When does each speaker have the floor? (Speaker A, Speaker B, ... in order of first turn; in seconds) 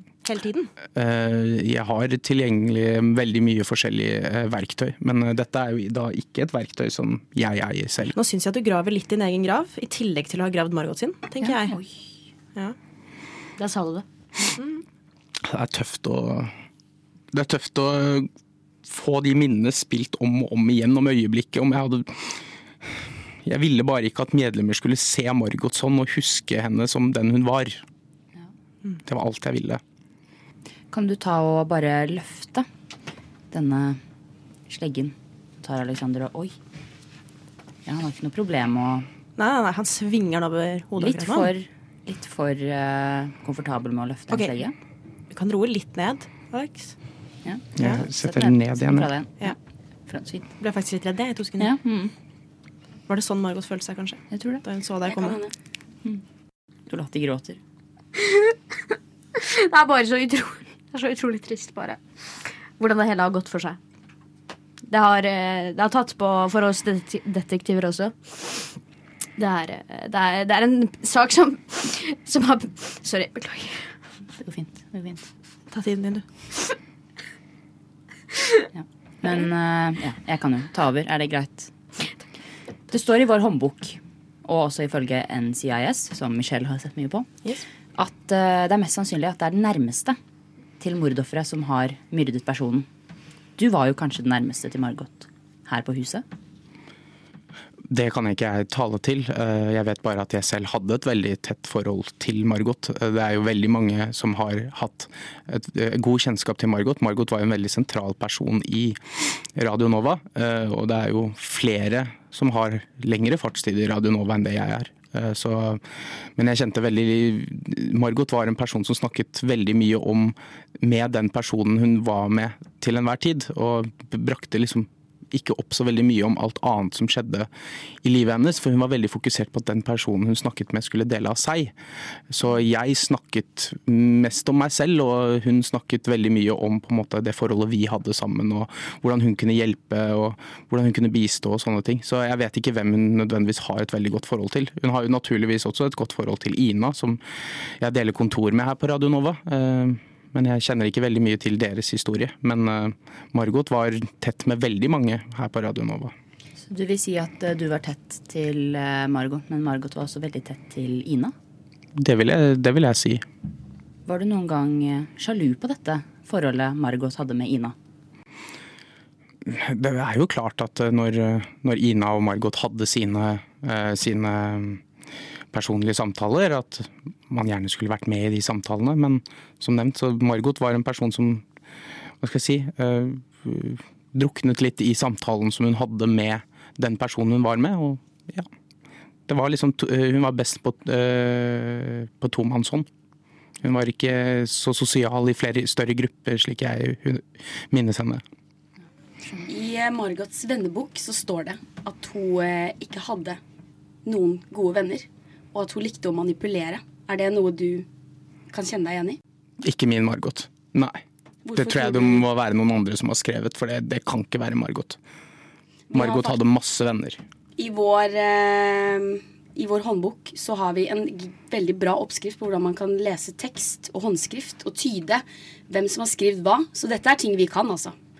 Speaker A: 0.2-0.7, 8.1-11.8, 39.4-41.5, 45.3-46.9, 50.6-51.7, 53.1-55.4, 75.7-76.2
Speaker B: 0.9-8.1, 15.4-16.5, 17.3-18.3, 18.8-22.4, 23.4-27.8, 29.0-29.8, 47.8-49.1, 97.9-109.0, 109.5-115.8, 116.3-127.5, 128.0-131.7, 132.3-147.2, 147.8-156.1, 162.0-163.2, 169.4-174.8, 175.5-181.4, 182.2-188.5, 189.3-192.8, 193.6-198.2, 209.6-211.0, 211.6-215.0, 215.9-217.2
Speaker C: 11.4-12.0, 30.9-32.7, 33.5-34.0, 34.7-36.5, 37.9-39.0, 41.0-44.7, 47.4-49.6, 50.1-50.5, 51.6-52.1, 54.3-54.6, 56.9-57.6, 74.4-75.3, 78.7-81.7, 82.9-87.3, 88.0-90.2, 90.8-92.8, 93.6-96.2, 156.7-161.3, 164.1-167.7
Speaker D: 13.6-14.0, 58.2-58.5, 59.4-62.0, 62.8-63.8, 64.9-68.7, 69.4-73.9
Speaker E: 55.0-55.5, 199.5-203.4, 204.0-207.9, 208.5-209.2, 211.4-212.3, 215.9-216.4, 217.6-227.9